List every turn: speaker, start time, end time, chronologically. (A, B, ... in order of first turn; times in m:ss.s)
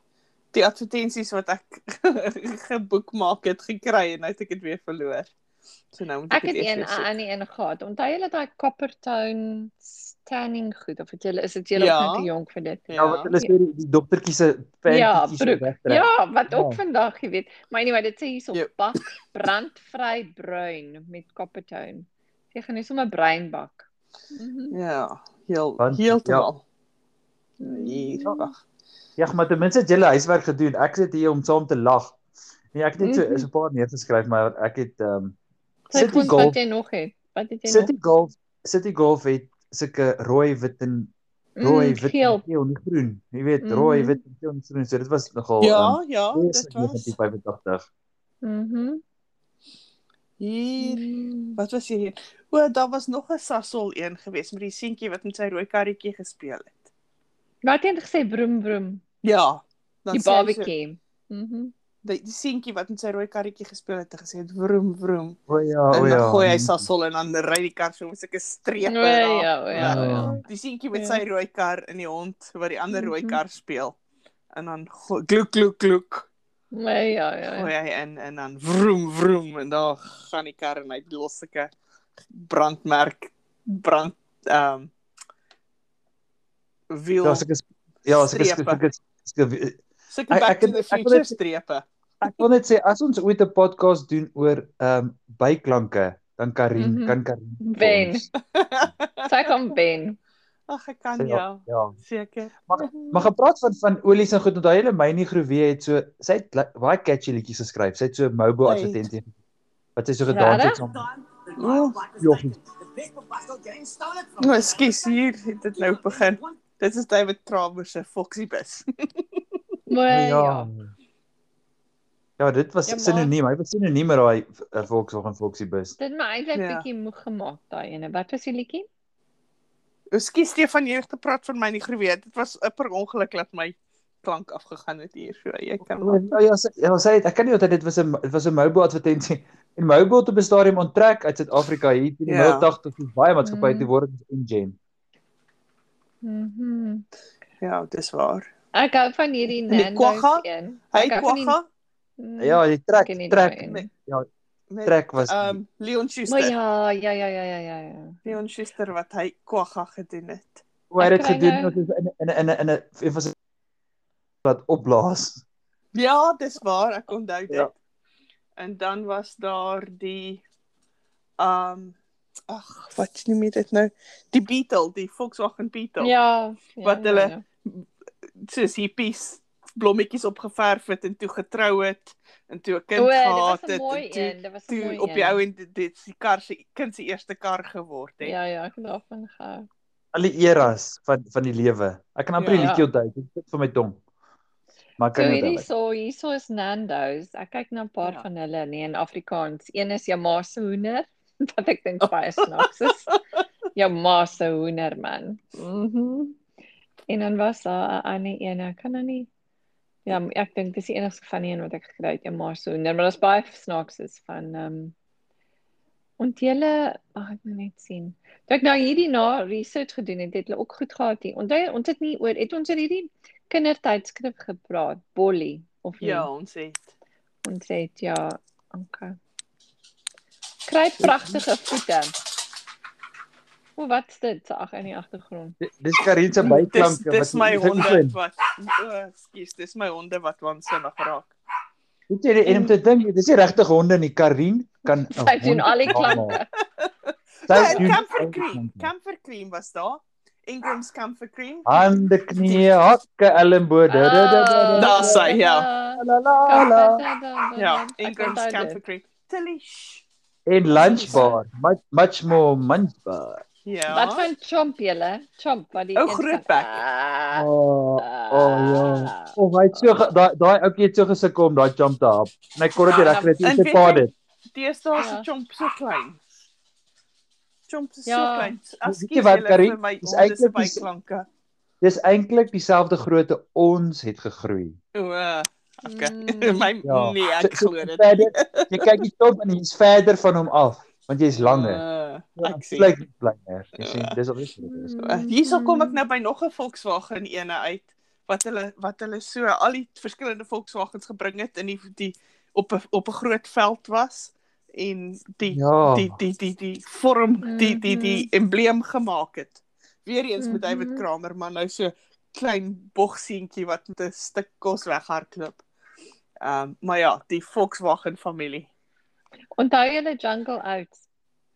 0:00.5-0:05.3 A
0:05.9-0:07.1 A
0:06.3-0:12.8 B
0:11.8-0:12.3 A
0:12.9-0:13.4 A
0:13.0-0:16.8 C
0:14.9-0:24.8 B
0:24.7-0:26.6 A
0:25.8-0:26.5 C
0:27.6-0:28.5 B
0:27.6-0:28.6 A
0:29.2-0:32.2 C
0:32.7-0:35.4 C
0:33.0-0:33.5 B
0:35.9-0:36.6 C
0:35.9-0:37.9 B
0:35.9-0:36.5 A
0:37.7-0:47.9 C
0:41.6-0:42.4 B
0:43.6-0:44.2 B
0:45.6-0:47.1 A
0:48.4-0:49.0 B
0:50.4-0:56.9 A
0:50.8-0:51.6 B
0:57.6-0:59.0 B
0:59.2-1:00.7 A
1:00.1-1:01.7 B
1:02.0-1:05.4 A
1:05.5-1:06.9 C
1:05.9-1:14.0 A
1:08.8-1:10.4 B
1:09.8-1:10.4 C
1:10.9-1:11.2 B
1:12.9-1:13.4 B
1:14.5-1:16.3 A
1:16.7-1:17.7 B
1:17.5-1:21.7 A
1:22.3-1:24.9 A
1:26.9-1:27.4 A
1:27.2-1:31.4 C
1:28.1-1:28.8 A
1:30.1-1:31.8 A
1:32.2-1:38.3 C
1:36.8-1:38.3 B
1:38.5-1:39.3 A
1:39.2-1:40.2 B
1:40.7-1:42.6 A
1:41.2-1:42.0 C
1:42.7-1:49.3 C
1:42.7-1:43.3 B
1:48.6-1:49.0 A
1:50.0-1:51.0 C
1:50.3-1:50.8 B
1:51.6-1:52.2 A
1:52.2-1:52.6 C
1:54.4-1:58.8 A
1:59.9-2:00.7 B
2:00.1-2:00.9 C
2:02.4-2:06.0 C
2:02.9-2:03.3 B
2:06.0-2:08.9 B
2:06.6-2:06.9 A
2:10.1-2:16.3 A
2:16.0-2:24.8 C
2:22.3-2:22.7 A
2:23.4-2:23.9 B
2:26.2-2:27.0 B
2:27.6-2:28.5 A
2:28.7-2:31.6 B
2:29.7-2:31.6 A
2:32.2-2:33.9 B
2:32.4-2:34.3 C
2:34.7-2:36.5 A
2:34.8-2:35.6 C
2:36.3-2:38.4 B
2:38.2-2:40.6 A
2:40.9-2:43.3 C
2:41.0-2:41.8 B
2:44.4-2:45.4 C
2:45.9-2:47.7 A
2:48.6-2:50.4 A
2:51.4-2:52.0 A
2:52.5-2:56.1 A
2:56.0-2:57.4 B
2:56.8-2:57.9 A
2:58.4-3:08.4 A
3:03.0-3:05.4 B
3:08.2-3:09.7 B
3:10.1-3:14.0 C
3:12.4-3:12.7 A
3:12.5-3:12.9 B
3:15.0-3:15.7 C
3:15.1-3:23.2 B
3:22.4-3:22.7 A
3:23.8-3:26.4 B
3:27.1-3:29.3 B
3:30.1-3:34.9 B
3:36.2-3:46.3 B
3:46.0-3:46.9 A
3:47.4-3:49.2 B
3:50.7-3:52.1 B
3:51.0-3:51.4 C
3:53.8-3:55.6 B
3:55.6-3:58.2 C
3:56.4-4:01.3 A
4:02.1-4:06.4 C
4:05.2-4:06.5 B
4:05.9-4:06.2 A
4:06.8-4:11.8 A
4:07.5-4:08.9 C
4:07.6-4:08.0 B
4:11.6-4:15.3 C
4:12.4-4:12.7 A
4:13.9-4:18.8 B
4:14.8-4:15.7 A
4:16.0-4:17.0 C
4:17.6-4:20.0 A
4:20.5-4:23.4 C
4:20.7-4:21.3 A
4:20.7-4:21.4 B
4:23.7-4:24.3 A
4:23.9-4:30.0 B
4:26.0-4:26.8 A
4:27.3-4:34.1 C
4:32.8-4:33.4 B
4:33.4-4:36.2 A
4:35.0-4:35.3 B
4:37.7-4:41.3 A
4:38.1-4:38.6 B
4:38.8-4:40.9 C
4:41.8-4:44.8 C
4:45.0-4:49.0 A
4:45.8-4:46.7 B
4:46.8-4:51.8 C
4:51.3-4:53.0 A
4:52.4-4:54.9 C
4:53.8-4:54.2 A
4:54.6-4:56.0 B
4:55.0-5:15.6 A
5:05.5-5:06.2 C
5:07.4-5:08.3 B
5:10.4-5:11.0 B
5:16.4-5:18.7 A
5:19.6-5:21.1 B